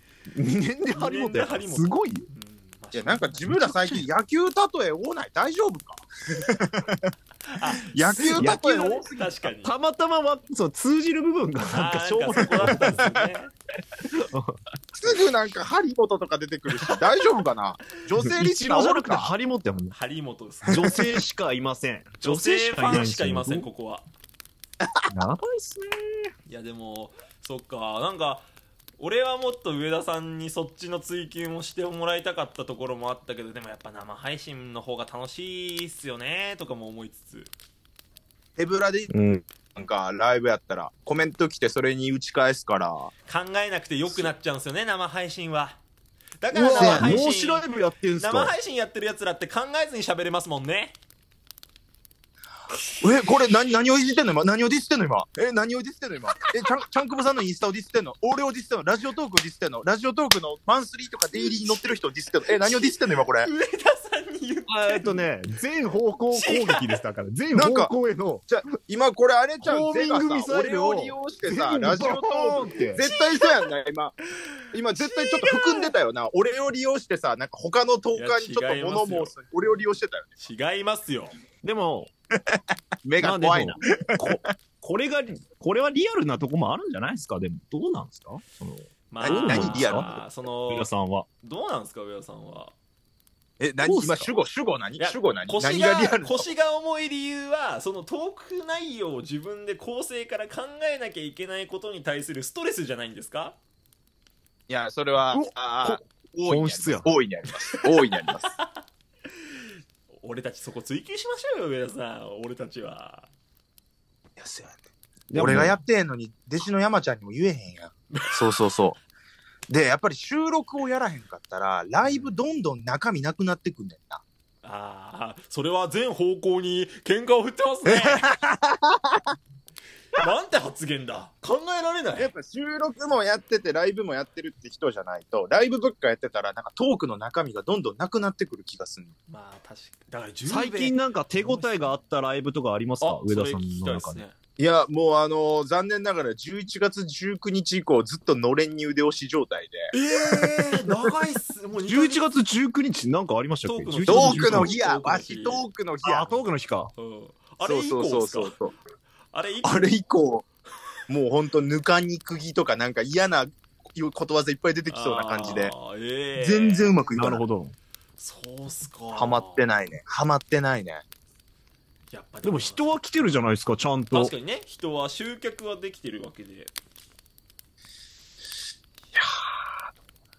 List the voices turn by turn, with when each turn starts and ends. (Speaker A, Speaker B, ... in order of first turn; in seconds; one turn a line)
Speaker A: 0.3-2.3
Speaker B: 0.9-3.5
Speaker C: 2.9-7.1
Speaker A: 3.5-4.0
Speaker B: 7.6-9.7
Speaker C: 7.9-9.3
Speaker A: 8.3-9.1
Speaker A: 9.6-13.2
Speaker B: 11.7-13.5
Speaker A: 14.1-15.2
Speaker C: 15.0-19.3
Speaker A: 18.2-19.9
Speaker B: 19.9-21.1
Speaker A: 20.7-23.7
Speaker B: 22.2-24.1
Speaker A: 25.1-26.3
Speaker B: 26.5-28.4
Speaker B: 29.0-37.5
Speaker C: 38.6-39.1
Speaker A: 39.1-39.4
Speaker C: 39.8-43.1
Speaker B: 43.3-45.8
Speaker B: 46.4-51.0
Speaker A: 46.5-48.5
Speaker C: 46.7-47.2
Speaker C: 53.0-63.5
Speaker B: 61.4-62.0
Speaker B: 62.6-65.3
Speaker A: 64.7-68.5
Speaker B: 66.3-67.0
Speaker C: 67.5-67.9
Speaker C: 68.5-74.1
Speaker A: 69.6-73.1
Speaker B: 73.0-73.7
Speaker C: 74.7-80.4
Speaker B: 75.0-75.9
Speaker B: 78.1-79.3
Speaker B: 80.4-81.3
Speaker A: 81.6-82.1
Speaker C: 82.6-84.5
Speaker A: 83.2-90.1
Speaker B: 89.1-90.9
Speaker C: 89.2-90.2
Speaker A: 90.7-91.3
Speaker B: 91.4-92.7
Speaker C: 93.6-96.5
Speaker A: 93.8-94.3
Speaker B: 95.0-103.6
Speaker C: 104.7-108.5
Speaker A: 105.3-107.1
Speaker B: 110.2-113.3
Speaker C: 114.4-114.8
Speaker A: 115.3-115.8
Speaker C: 115.3-119.0
Speaker C: 119.7-124.2
Speaker B: 122.0-122.3
Speaker B: 124.6-128.3
Speaker C: 127.9-129.3
Speaker B: 130.2-132.3
Speaker C: 132.2-139.1
Speaker B: 139.3-142.0
Speaker A: 140.5-144.2
Speaker B: 143.0-144.3
Speaker C: 144.6-149.9
Speaker B: 149.9-152.2
Speaker A: 151.9-154.7
Speaker B: 153.6-155.7
Speaker C: 154.1-156.4
Speaker A: 156.0-156.9
Speaker B: 157.0-158.6
Speaker C: 157.6-158.7
Speaker B: 159.3-159.9
Speaker C: 159.6-160.5
Speaker C: 161.1-165.7
Speaker B: 164.9-167.0
Speaker C: 166.4-167.4
Speaker A: 167.2-167.8
Speaker B: 168.2-169.7
Speaker C: 169.1-171.0
Speaker B: 172.1-173.3
Speaker A: 172.4-174.3
Speaker B: 174.1-176.7